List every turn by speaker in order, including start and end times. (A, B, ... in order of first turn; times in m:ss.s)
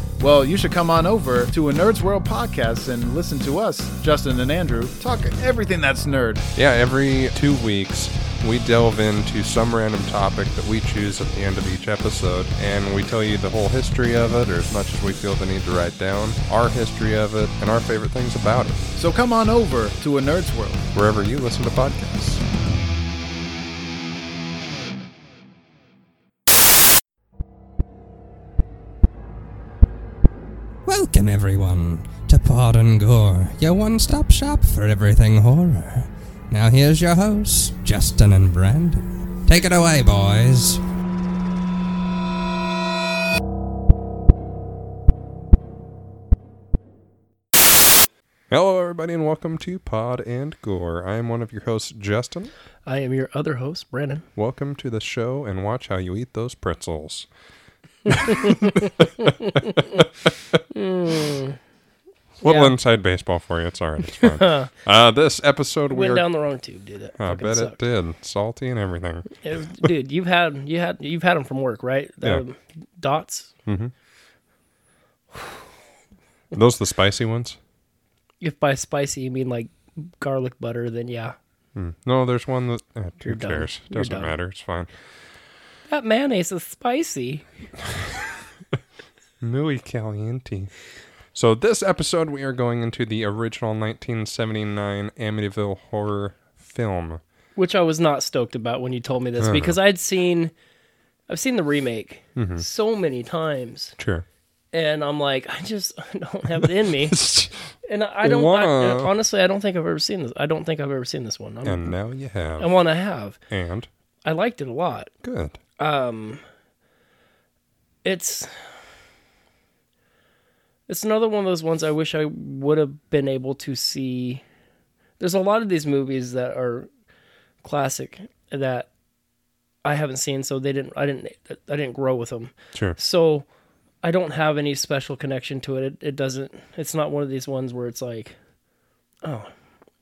0:00.2-0:06.5 A
0:06.5-0:18.8 B
0:19.0-0:20.9 A
0:20.9-0:22.4 B
0:30.8-0:40.8 C
0:48.5-0:52.5 B
0:52.8-0:54.2 D
0:54.4-0:57.3 B
0:58.1-0:58.9 D
0:58.1-1:00.6 B
1:00.7-1:01.6 D
1:02.4-1:06.3 B
1:02.4-1:02.7 D
1:04.2-1:04.7 D
1:05.9-1:07.8 D
1:07.2-1:09.3 B
1:09.3-1:13.5 D
1:13.6-1:13.9 B
1:16.5-1:17.6 B
1:18.4-1:21.4 D
1:21.7-1:24.9 B
1:23.2-1:24.3 D
1:25.9-1:27.4 D
1:27.9-1:28.4 B
1:29.4-1:30.7 B
1:31.3-1:37.2 B
1:37.6-1:40.5 D
1:39.4-1:39.8 B
1:41.3-1:44.0 D
1:42.4-1:42.6 B
1:44.0-1:44.2 B
1:44.7-1:47.2 D
1:46.6-1:47.5 B
1:47.8-1:51.9 D
1:48.2-1:49.1 B
1:51.6-1:52.7 B
1:52.6-1:53.4 D
1:53.5-1:53.9 B
1:54.2-1:55.1 D
1:55.2-1:55.6 B
1:55.8-1:56.4 D
1:58.0-1:58.6 D
2:00.9-2:04.4 D
2:05.2-2:06.9 D
2:07.6-2:08.9 D
2:09.8-2:13.4 D
2:14.0-2:18.4 D
2:19.2-2:19.5 D